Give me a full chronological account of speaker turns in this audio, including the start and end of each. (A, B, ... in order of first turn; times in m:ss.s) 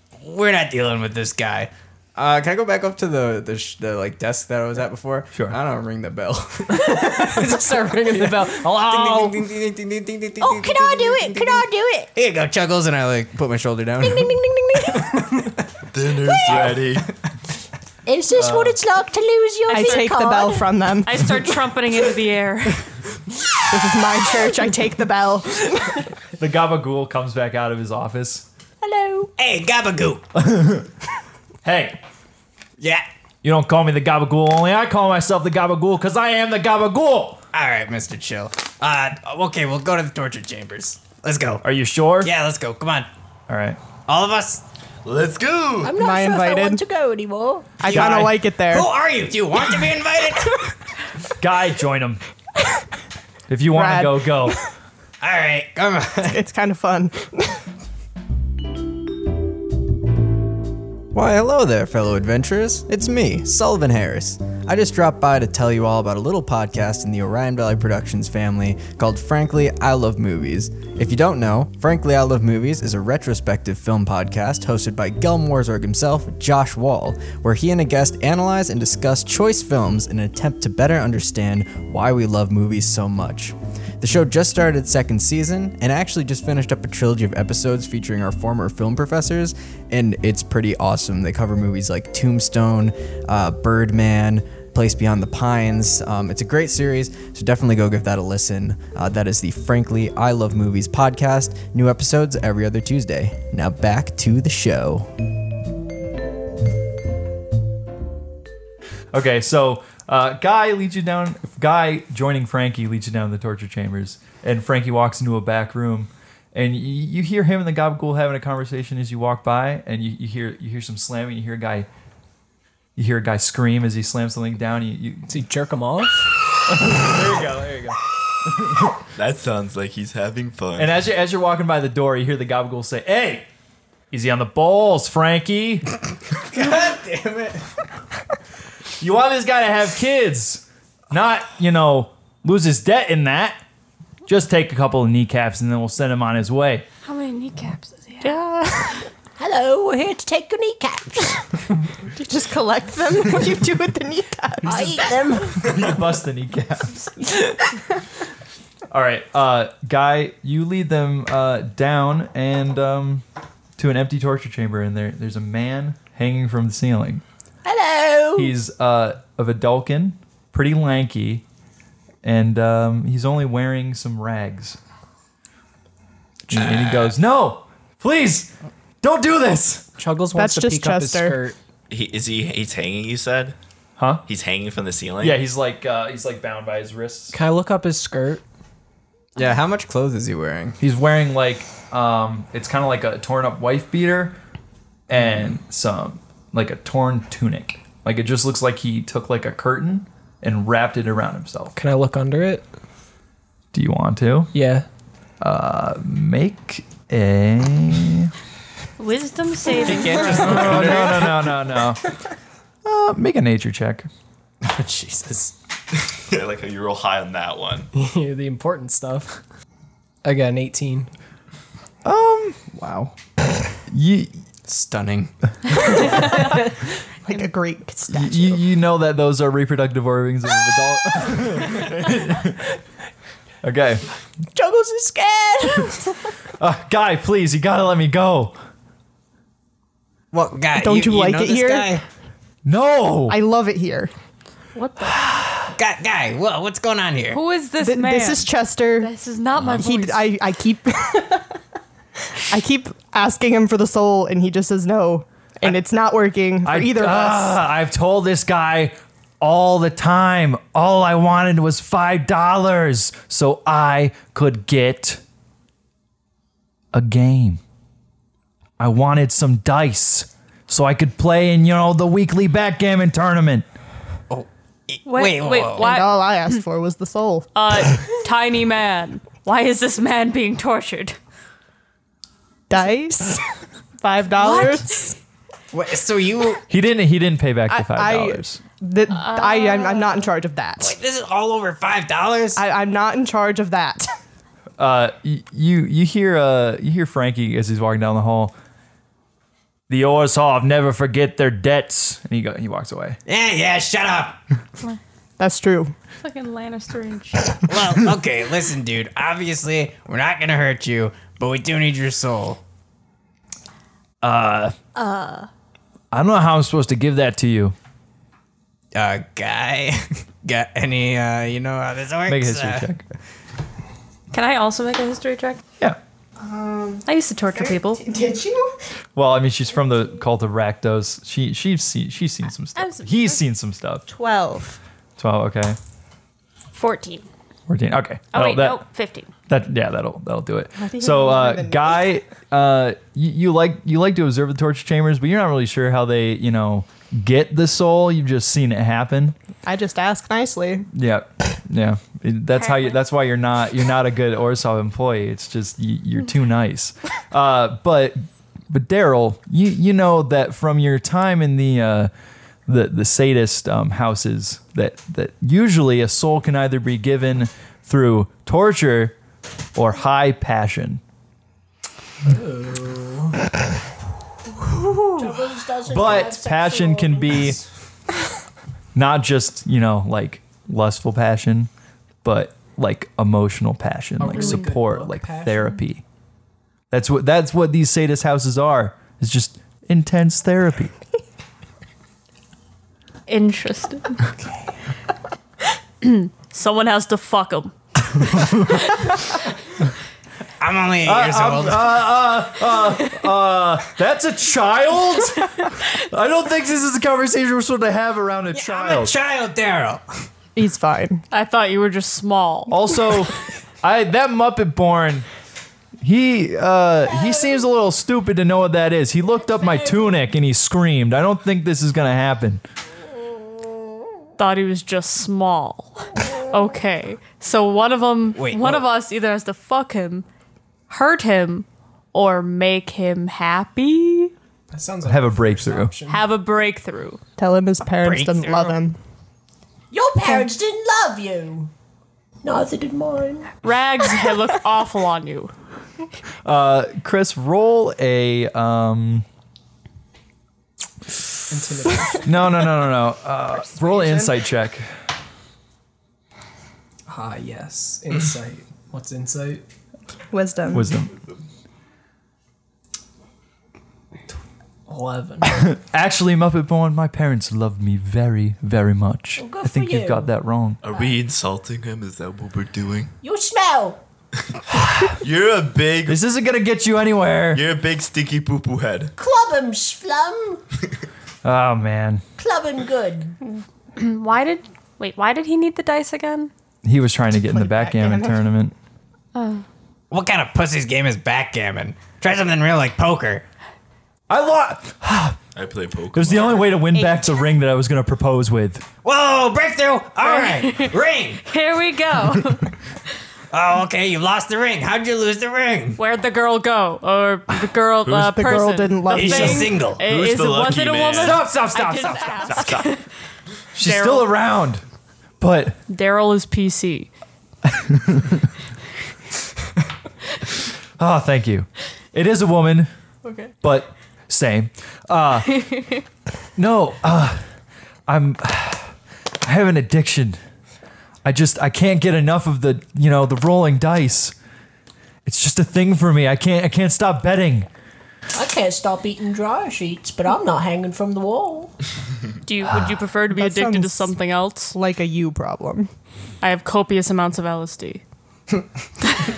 0:00.2-0:01.7 A
0:02.1-0:07.6 B
0:06.7-0:09.4 C
0:08.2-0:11.6 B
0:10.4-0:12.1 D
0:12.1-0:13.4 A
0:13.2-0:15.4 B
0:14.0-0:15.3 D
0:15.9-0:17.1 E
0:16.4-0:16.8 D
0:16.5-0:16.8 B
0:18.0-0:20.7 D
0:18.3-0:18.8 F
0:19.7-0:21.5 G
0:19.7-0:20.1 H
0:21.0-0:22.9 H
0:23.7-0:26.0 G
0:26.4-0:28.4 F
0:28.8-0:29.3 D
0:29.4-0:30.2 A
0:30.4-0:30.9 F
0:31.6-0:32.0 F
0:32.8-0:33.0 A
0:33.4-0:37.4 F
0:37.5-0:41.6 A
0:41.6-0:42.3 F
0:42.2-0:43.1 A
0:43.5-0:43.8 F
0:44.0-0:44.6 A
0:45.0-0:45.9 E
0:45.8-0:47.9 D
0:45.9-0:46.8 G
0:47.8-0:48.9 G
0:47.9-0:48.4 F
0:47.9-0:50.7 A
0:51.4-0:52.2 F
0:53.5-0:54.6 F
0:53.7-0:54.6 G
0:55.2-0:56.4 A
0:56.2-0:57.6 G
1:01.1-1:45.1 B
1:49.1-2:01.9 F
2:03.0-2:05.4 F
2:05.3-2:06.3 C
2:06.7-2:08.0 F
2:09.2-2:10.9 E
2:10.8-2:13.4 F
2:14.1-2:15.9 F
2:16.5-2:17.6 A
2:19.0-2:23.6 F
2:24.3-2:26.8 F
2:27.0-2:29.1 H
2:29.4-2:31.4 D
2:32.2-2:35.2 G
2:34.6-2:35.8 D
2:35.7-2:37.1 F
2:38.9-2:43.2 F
2:43.8-2:47.2 F
2:47.6-2:48.5 D
2:48.4-2:51.4 F
2:52.2-2:54.8 F
2:56.5-2:59.9 F
3:00.0-3:01.6 C
3:00.3-3:01.4 G
3:01.9-3:03.5 E
3:04.0-3:04.2 F
3:04.2-3:05.4 E
3:05.2-3:07.4 F
3:07.3-3:08.4 C
3:09.4-3:10.8 B
3:10.8-3:14.4 F
3:15.1-3:21.8 F
3:21.7-3:22.6 C
3:23.7-3:24.5 F
3:24.5-3:24.8 C
3:25.4-3:28.3 F
3:29.0-3:30.8 H
3:30.1-3:32.0 F
3:32.8-3:34.1 F
3:34.8-3:35.5 B
3:36.1-3:37.9 E
3:37.9-3:39.4 C
3:40.2-3:41.1 C
3:42.0-3:42.7 F
3:42.7-3:43.1 B
3:43.9-3:44.4 F
3:44.7-3:45.3 B
3:46.0-3:46.6 G
3:47.2-3:48.6 G
3:48.1-3:52.7 F
3:53.6-3:54.0 F
3:54.5-3:56.1 D
3:56.6-3:58.6 F
4:00.3-4:02.0 A
4:00.7-4:02.0 G
4:02.6-4:03.4 F
4:03.3-4:04.1 G
4:04.8-4:05.2 H
4:05.8-4:07.4 A
4:07.3-4:10.3 H
4:07.8-4:09.1 G
4:09.6-4:11.5 G
4:12.5-4:17.6 G
4:16.6-4:25.2 F
4:26.9-4:27.6 F
4:28.8-4:33.6 F
4:34.3-4:35.9 A
4:35.0-4:36.6 H
4:35.7-4:37.5 G
4:37.5-4:41.2 H
4:42.7-4:43.4 G
4:44.0-4:45.1 G
4:44.4-4:45.1 H
4:45.7-4:46.6 A
4:46.7-4:48.6 F
4:47.7-4:51.0 G
4:49.1-4:50.3 H
4:50.8-4:52.6 A
4:52.6-4:54.1 G
4:54.8-4:58.5 F
4:59.9-5:03.2 F
5:03.2-5:04.4 A
5:05.4-5:05.9 G
5:06.2-5:07.6 H
5:07.7-5:12.6 A
5:14.2-5:14.7 F
5:15.0-5:15.4 H
5:16.1-5:17.7 F
5:18.9-5:22.9 A
5:22.3-5:23.0 F
5:24.3-5:25.6 H
5:26.4-5:28.7 G
5:27.0-5:28.0 H
5:29.2-5:34.0 F
5:32.8-5:33.4 H
5:34.1-5:34.8 G
5:35.2-5:35.8 F
5:36.7-5:37.3 H
5:37.7-5:38.8 F
5:38.3-5:39.3 H
5:39.5-5:49.4 F
5:40.7-5:42.1 G
5:49.6-5:50.9 G
5:50.9-6:02.1 F
5:52.6-5:52.9 H
6:02.7-6:09.2 F
6:09.7-6:11.0 F
6:12.2-6:13.3 C
6:15.2-6:17.6 D
6:15.9-6:17.6 F
6:18.9-6:21.7 F
6:22.2-6:26.0 F
6:24.2-6:25.8 C
6:26.9-6:30.9 F
6:33.3-6:34.3 H
6:36.0-6:37.7 H
6:40.6-6:41.9 A
6:41.0-6:49.1 F
6:48.5-6:50.0 A
6:50.5-6:51.2 G
6:51.3-6:52.8 H
6:52.7-6:55.3 F
6:56.0-7:02.6 F
6:57.1-6:57.4 D
6:59.6-7:00.1 D
7:04.4-7:10.2 H
7:08.3-7:08.8 A
7:10.9-7:14.3 H
7:14.7-7:16.2 C
7:15.0-7:15.9 F
7:16.1-7:17.2 H
7:17.4-7:19.0 G
7:18.0-7:18.7 A
7:19.9-7:21.7 D
7:22.4-7:23.6 D
7:23.6-7:25.5 H
7:26.4-7:29.2 F
7:31.5-7:32.4 C
7:32.2-7:34.9 F
7:33.5-7:34.4 G
7:37.1-7:39.6 C
7:40.3-7:40.9 G
7:40.7-7:41.2 F
7:44.9-7:45.7 C
7:45.4-7:50.8 F
7:49.4-7:50.3 D
7:50.8-7:53.1 E
7:53.2-7:54.0 D
7:54.8-7:55.1 F
7:55.2-7:56.2 E
7:56.0-7:57.6 F
7:57.5-7:59.1 E
7:59.2-8:00.6 D
8:01.4-8:02.2 F
8:02.4-8:03.4 D
8:04.0-8:06.5 H
8:06.8-8:08.7 F
8:07.4-8:08.4 G
8:09.3-8:09.6 H
8:10.1-8:13.4 A
8:14.3-8:15.4 F
8:15.5-8:16.8 E
8:16.1-8:18.8 F
8:16.9-8:17.6 G
8:19.0-8:21.4 A
8:20.2-8:22.7 H
8:23.5-8:26.0 A
8:26.0-8:33.0 H
8:28.1-8:29.8 G
8:29.1-8:30.0 A
8:30.0-8:31.5 E
8:31.1-8:32.8 F
8:33.7-8:34.8 F
8:33.8-8:34.3 H
8:35.4-8:35.8 F
8:35.9-8:37.1 H
8:37.8-8:38.4 F
8:41.0-8:42.9 F
8:43.2-8:43.5 H
8:43.6-8:45.8 F
8:46.6-8:47.4 F
8:48.1-8:48.9 F
8:49.4-8:50.4 F
8:51.2-8:54.3 F
8:55.2-8:57.7 F
8:58.3-9:01.7 D
9:02.4-9:04.8 H
9:03.3-9:04.1 G
9:04.7-9:05.9 G
9:06.4-9:08.0 H